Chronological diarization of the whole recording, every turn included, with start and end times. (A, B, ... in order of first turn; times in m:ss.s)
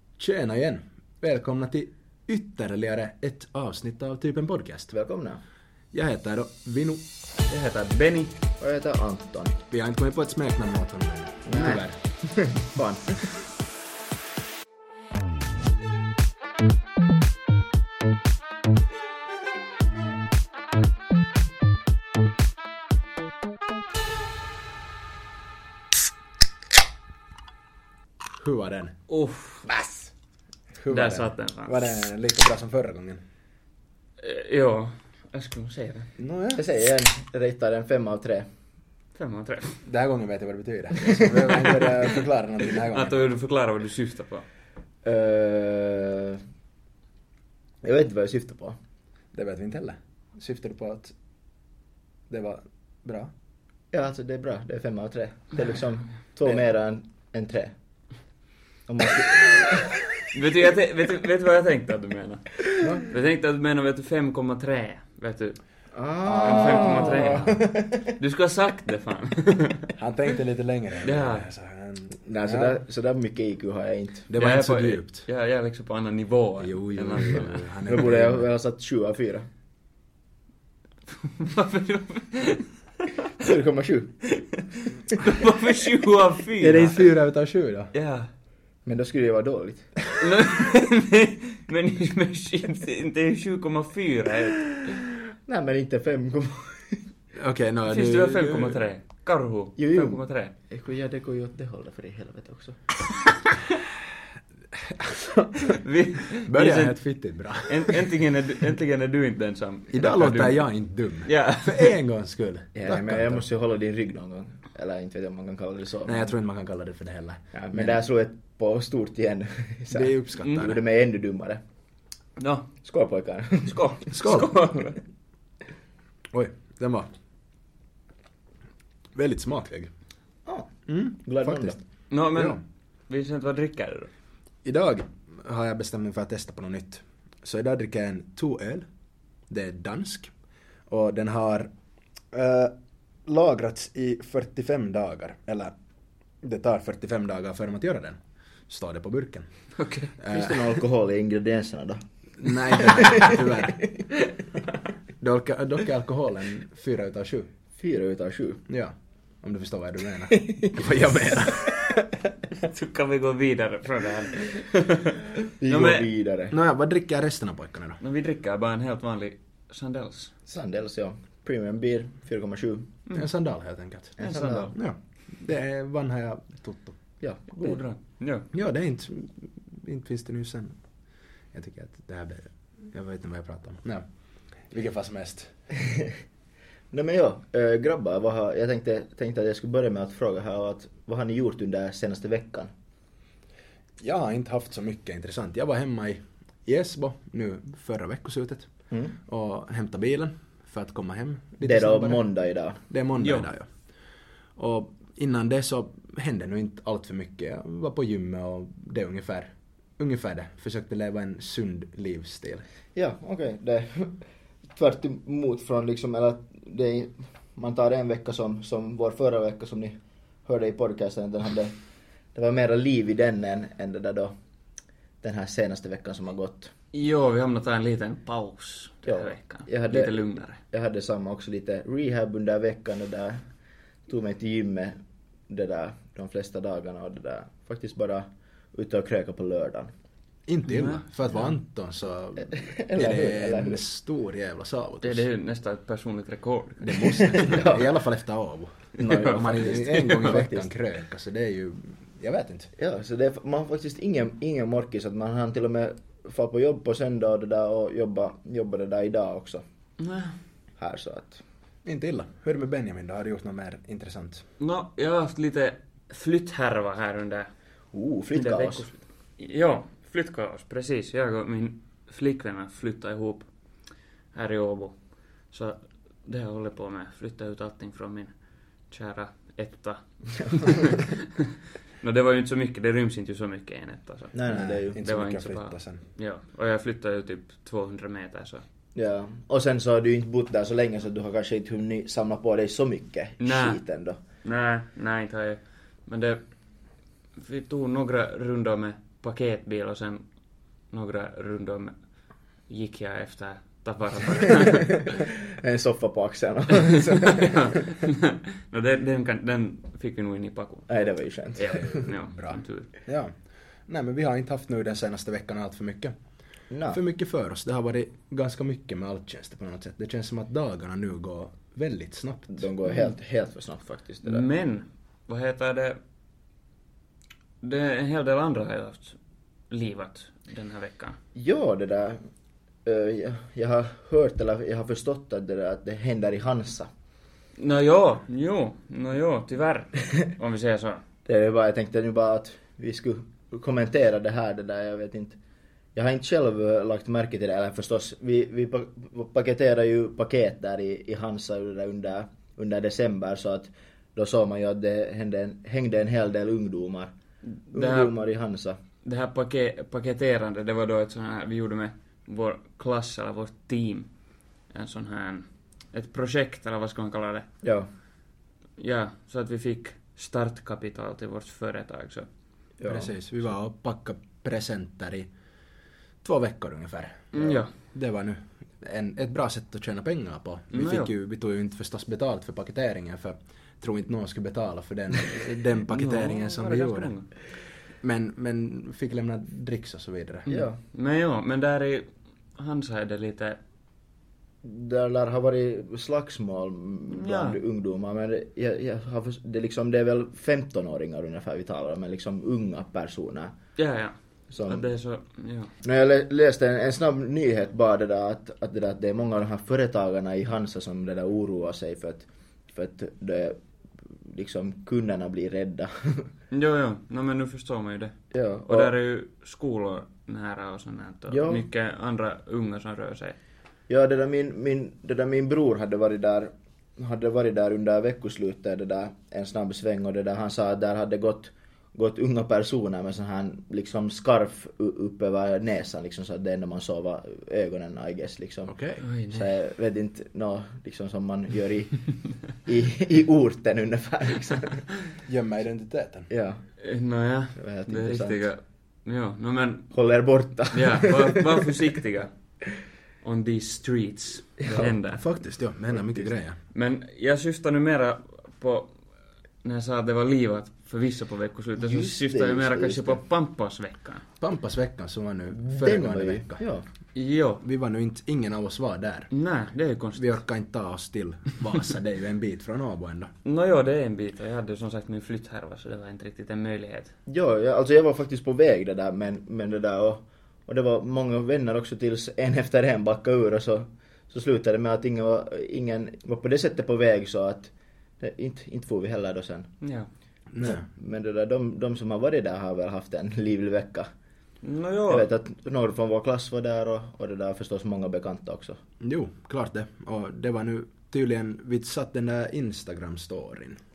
0:00.2-0:04.9 A
0:04.9-0:05.4 B
0:05.9-0:07.0 A
0:07.5-0:08.4 C
0:08.6-0:09.6 B
0:09.7-0:12.0 A
0:11.5-0:13.2 B
0:28.4-0:29.0 A
0:29.1-0:29.7 C
0:29.7-0:30.1 A
0:30.8-0:33.2 A
0:30.9-0:31.8 C
0:34.2-0:36.1 C
0:36.2-0:36.6 A
0:36.6-0:38.5 B
0:39.2-0:39.8 C
0:39.8-0:43.2 A
0:42.9-0:44.4 C
0:45.0-0:46.4 B
0:47.8-0:48.8 B
0:49.3-0:51.1 A
0:52.3-0:53.3 A
0:53.9-0:57.7 B
0:58.9-0:59.9 B
1:00.3-1:05.6 C
1:02.8-1:03.1 A
1:05.9-1:08.1 B
1:06.3-1:07.0 A
1:06.3-1:09.9 C
1:10.0-1:12.8 A
1:11.0-1:11.5 C
1:12.2-1:14.3 B
1:14.3-1:15.3 A
1:14.4-1:17.7 C
1:16.6-1:18.4 A
1:17.9-1:19.5 B
1:21.1-1:22.7 C
1:23.4-1:24.2 B
1:25.1-1:27.2 C
1:26.6-1:27.9 A
1:27.9-1:28.3 C
1:28.9-1:29.9 B
1:30.2-1:34.8 C
1:35.5-1:37.1 B
1:37.4-1:38.8 A
1:37.9-1:40.5 C
1:39.8-1:42.8 B
1:44.8-1:45.7 A
1:45.8-1:47.0 C
1:46.4-1:48.1 A
1:47.7-1:50.7 C
1:49.9-1:53.4 A
1:51.2-1:51.9 C
1:52.8-1:56.3 B
1:56.1-1:58.0 A
1:57.5-2:01.6 B
1:59.9-2:00.8 A
2:02.4-2:02.7 C
2:02.8-2:03.8 B
2:03.7-2:05.0 C
2:04.1-2:04.5 A
2:06.3-2:07.1 A
2:09.2-2:09.9 A
2:10.5-2:11.8 B
2:10.9-2:11.8 A
2:12.1-2:14.1 C
2:12.3-2:12.6 A
2:14.6-2:18.8 A
2:19.5-2:20.3 A
2:20.9-2:21.7 A
2:22.3-2:22.7 A
2:23.3-2:25.7 A
2:26.4-2:29.5 A
2:29.8-2:30.2 C
2:30.2-2:30.6 A
2:30.3-2:32.0 B
2:32.4-2:33.8 A
2:32.7-2:33.4 B
2:35.2-2:37.5 A
2:37.8-2:38.6 B
2:38.7-2:41.7 A
2:40.3-2:40.8 B
2:41.5-2:41.9 B
2:42.6-2:46.1 C
2:45.6-2:46.6 B
2:46.5-2:48.0 A
2:48.0-2:50.3 C
2:50.5-2:52.9 B
2:53.1-2:54.2 A
2:54.2-2:54.7 B
2:54.2-2:54.8 C
2:54.8-2:57.0 A
2:57.2-2:57.8 B
2:57.5-2:58.5 C
2:58.5-3:00.8 A
3:01.5-3:04.0 A
3:04.7-3:05.5 A
3:05.8-3:06.1 B
3:06.9-3:12.7 B
3:14.0-3:18.7 A
3:19.3-3:22.2 A
3:21.6-3:22.8 B
3:22.9-3:23.7 A
3:23.2-3:23.5 C
3:24.6-3:32.6 A
3:33.0-3:34.2 B
3:34.8-3:41.8 B
3:42.4-3:44.3 B
3:45.2-3:46.7 B
3:46.9-3:50.6 C
3:49.0-3:53.4 B
3:54.1-3:55.0 B
3:55.5-3:59.9 B
4:00.5-4:05.3 A
4:00.7-4:01.0 C
4:02.5-4:03.8 B
4:05.0-4:07.5 C
4:06.8-4:12.7 A
4:07.4-4:07.8 B
4:09.0-4:10.4 C
4:09.0-4:10.7 B
4:12.8-4:19.6 B
4:20.0-4:20.4 C
4:20.8-4:21.4 B
4:21.8-4:24.4 A
4:24.6-4:27.5 C
4:27.9-4:28.9 B
4:28.3-4:33.5 C
4:34.3-4:35.0 C
4:35.5-4:38.3 C
4:38.9-4:41.5 C
4:42.0-4:44.4 C
4:44.3-4:45.0 B
4:44.5-4:46.0 A
4:44.9-4:48.6 C
4:49.0-4:54.2 B
4:53.4-4:53.8 C
4:54.4-4:56.5 C
4:57.4-5:00.3 C
5:00.9-5:01.9 C
5:02.7-5:05.0 C
5:05.5-5:07.8 B
5:07.1-5:10.9 C
5:10.9-5:12.0 B
5:11.6-5:12.9 C
5:11.9-5:13.3 A
5:13.9-5:16.1 A
5:16.7-5:17.0 B
5:16.9-5:22.6 A
5:22.5-5:24.5 B
5:22.9-5:23.2 C
5:24.2-5:26.0 C
5:27.6-5:29.2 C
5:29.7-5:31.2 C
5:31.4-5:32.2 B
5:32.8-5:36.9 B
5:37.6-5:41.0 C
5:41.3-5:45.4 B
5:46.0-5:57.1 B
5:57.5-5:58.1 C
5:57.7-5:58.8 B
5:59.0-6:04.1 C
6:04.7-6:07.5 C
6:07.6-6:07.9 B
6:08.8-6:12.3 C
6:12.8-6:13.1 B
6:12.9-6:15.3 A
6:16.2-6:30.5 A
6:17.3-6:17.7 C
6:20.7-6:21.1 C
6:25.5-6:27.3 C
6:30.5-6:33.6 C
6:30.5-6:30.8 B
6:34.6-6:43.5 B
6:37.1-6:37.6 C
6:43.8-6:45.7 C
6:44.5-6:44.9 B
6:45.8-6:53.6 B
6:54.1-6:56.3 B
6:56.5-6:58.2 C
6:58.3-6:58.9 B
6:58.7-7:03.4 C
7:01.3-7:01.6 B
7:03.9-7:18.8 B
7:18.7-7:19.0 A
7:19.0-7:19.5 C
7:19.3-7:24.9 B
7:25.3-7:26.3 A
7:26.3-7:26.6 B
7:26.8-7:29.9 C
7:27.6-7:28.5 B
7:29.9-7:31.7 B
7:30.7-7:32.3 C
7:33.2-7:35.2 C
7:34.6-7:34.9 B
7:35.1-7:36.6 A
7:36.0-7:36.3 B
7:36.7-7:39.0 C
7:39.6-7:44.2 C
7:41.8-7:43.2 B
7:44.4-7:46.6 A
7:45.7-7:46.8 B
7:47.2-7:47.6 C
7:47.6-7:49.3 A
7:49.3-7:50.4 C
7:50.2-7:53.3 A
7:53.4-7:57.1 C
7:57.3-8:09.7 B
8:09.8-8:10.1 C
8:10.5-8:10.9 A
8:10.6-8:14.1 B
8:14.6-8:15.3 C
8:15.1-8:18.8 B
8:19.0-8:23.8 A